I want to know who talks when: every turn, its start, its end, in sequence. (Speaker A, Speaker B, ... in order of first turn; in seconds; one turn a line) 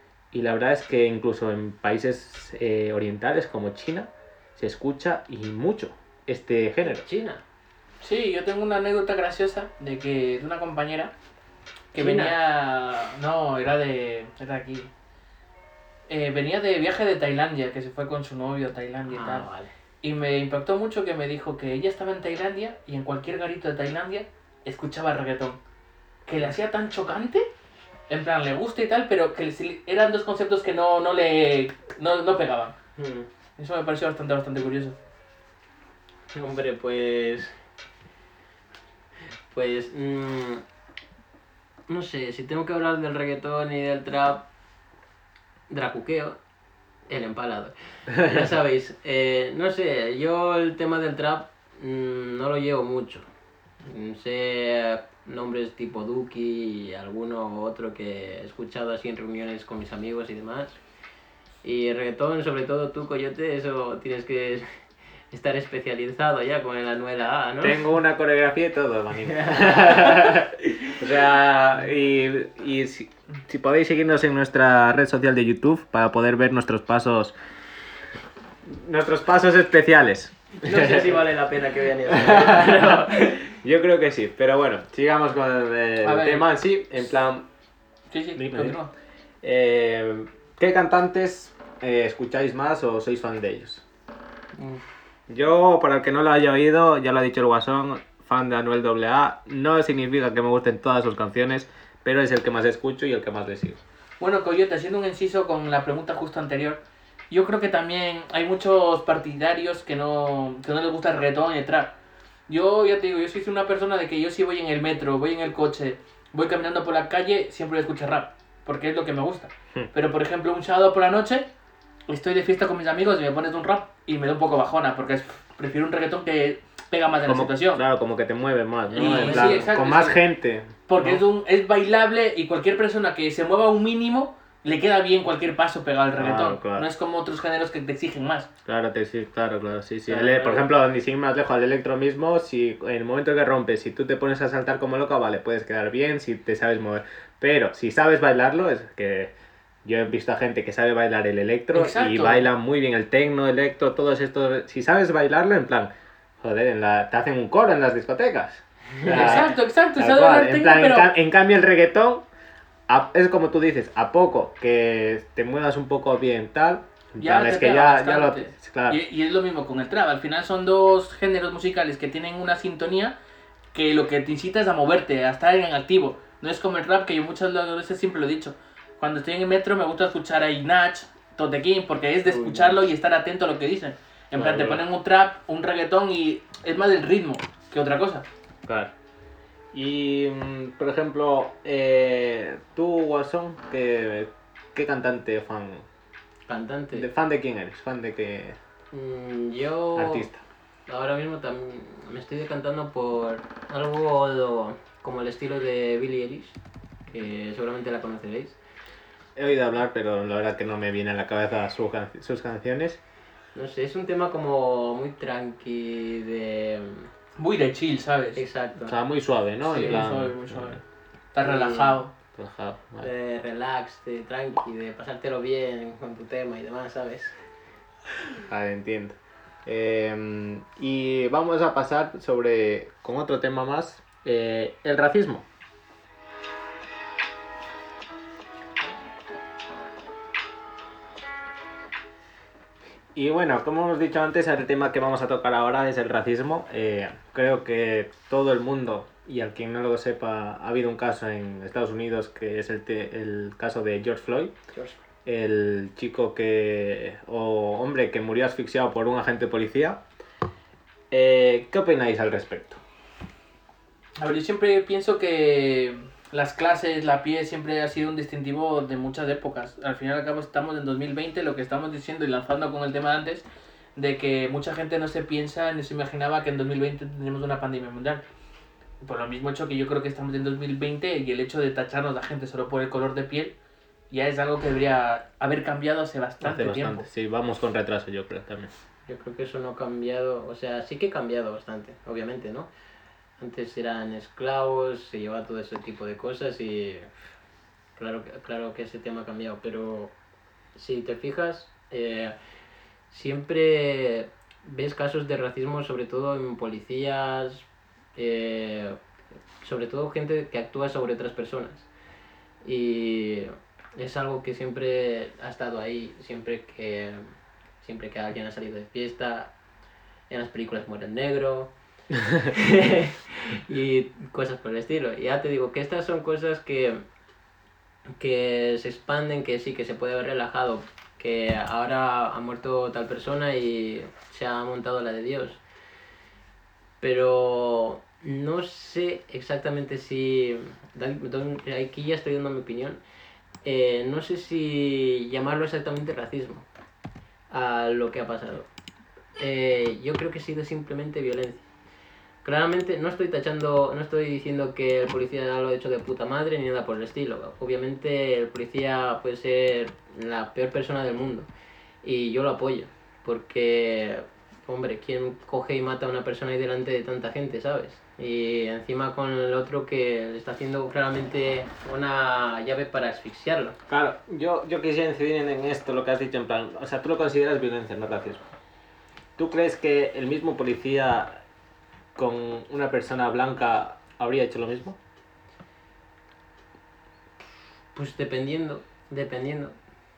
Speaker A: 0.3-7.0
Speaker B: 7.0-7.4
Speaker C: 8.0-11.1
Speaker C: 11.9-14.9
Speaker B: 11.9-12.3
Speaker C: 16.1-19.5
Speaker B: 19.1-19.7
Speaker C: 20.0-25.6
Speaker C: 26.2-27.5
Speaker C: 28.1-32.7
Speaker B: 33.0-33.3
Speaker C: 33.6-35.0
Speaker B: 36.3-37.5
Speaker B: 39.5-40.6
Speaker B: 41.9-44.5
Speaker B: 45.7-46.4
Speaker B: 47.1-53.3
Speaker A: 48.1-48.5
Speaker B: 53.8-60.8
Speaker B: 61.6-64.7
Speaker B: 65.3-67.9
Speaker A: 67.6-77.3
Speaker B: 69.4-70.3
Speaker A: 78.6-81.1
Speaker B: 80.6-83.5
Speaker A: 82.1-87.5
Speaker C: 86.0-86.5
Speaker C: 88.1-88.9
Speaker A: 88.3-88.8
Speaker A: 89.4-93.8
Speaker B: 94.5-94.9
Speaker A: 95.3-103.8
Speaker C: 104.2-112.0
Speaker C: 112.5-121.5
Speaker C: 122.1-127.8
Speaker A: 127.2-131.2
Speaker B: 128.9-129.7
Speaker C: 128.9-130.2
Speaker C: 130.9-138.5
Speaker A: 136.2-136.9
Speaker A: 138.7-149.3
Speaker B: 140.1-140.7
Speaker A: 149.8-162.2
Speaker C: 151.7-152.5
Speaker C: 159.1-161.1
Speaker A: 162.9-169.0
Speaker C: 167.2-173.2
Speaker C: 173.7-188.2
Speaker B: 182.2-182.8
Speaker A: 184.3-184.8
Speaker A: 188.7-188.9
Speaker A: 189.7-195.8
Speaker B: 196.5-197.1
Speaker A: 196.9-198.6
Speaker B: 198.9-200.3
Speaker A: 199.9-200.4
Speaker B: 200.9-208.6
Speaker A: 209.3-213.0
Speaker B: 213.5-217.1
Speaker C: 217.4-218.4
Speaker B: 218.3-219.0
Speaker A: 218.8-220.8
Speaker C: 219.6-220.8
Speaker C: 221.3-222.1
Speaker B: 221.4-222.0
Speaker A: 222.3-223.1
Speaker B: 223.0-227.4
Speaker A: 228.4-235.4
Speaker A: 243.1-254.5
Speaker B: 254.7-255.0
Speaker A: 255.2-260.0
Speaker A: 261.1-262.8
Speaker C: 264.2-273.4
Speaker C: 273.9-278.2
Speaker C: 279.0-283.5
Speaker C: 284.1-287.1
Speaker A: 286.4-288.7
Speaker B: 289.1-292.7
Speaker B: 293.4-297.1
Speaker B: 297.9-300.1
Speaker B: 300.8-302.4
Speaker B: 303.1-309.0
Speaker B: 309.6-311.9
Speaker B: 312.6-319.5
Speaker B: 320.3-321.7
Speaker B: 322.4-327.0
Speaker B: 328.2-335.6
Speaker B: 337.0-343.0
Speaker B: 343.6-346.6
Speaker B: 347.5-348.7
Speaker B: 349.4-351.7
Speaker B: 352.4-361.5
Speaker B: 362.0-373.8
Speaker A: 373.9-378.4
Speaker A: 379.4-381.4
Speaker A: 382.1-385.0
Speaker B: 387.9-389.8